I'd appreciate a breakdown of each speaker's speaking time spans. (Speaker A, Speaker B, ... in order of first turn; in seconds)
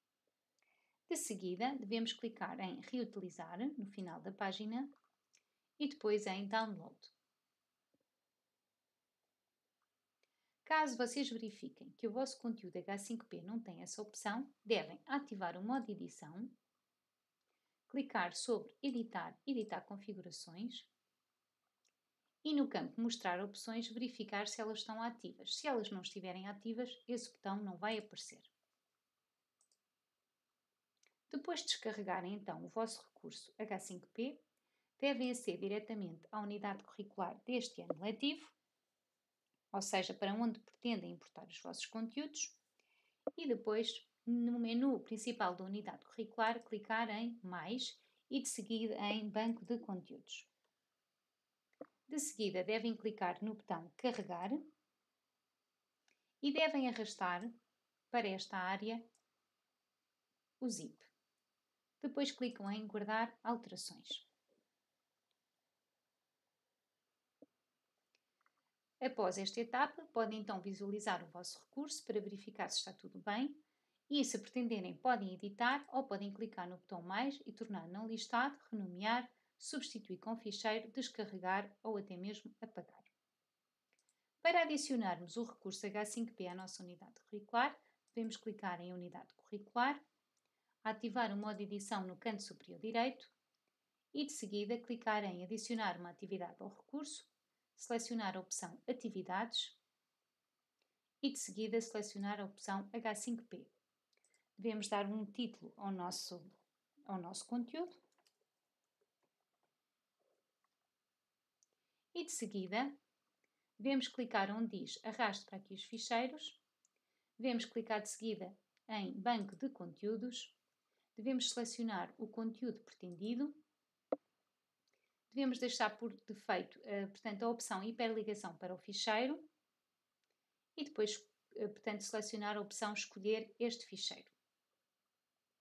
Speaker A: 1.1-4.9, 5.8-7.1, 10.7-16.6, 17.9-20.9, 22.4-28.5, 31.3-34.4, 35.0-38.5, 39.7-42.6, 43.4-50.5, 52.1-54.7, 56.4-57.6, 58.1-59.1, 60.6-61.1, 62.0-64.3, 69.0-83.1, 84.4-90.0, 90.8-93.3, 94.1-99.8, 101.2-103.7, 104.6-106.5, 107.1-108.0, 112.1-113.0, 113.8-116.6, 117.4-120.6, 121.2-123.6, 125.3-129.5, 130.8-134.4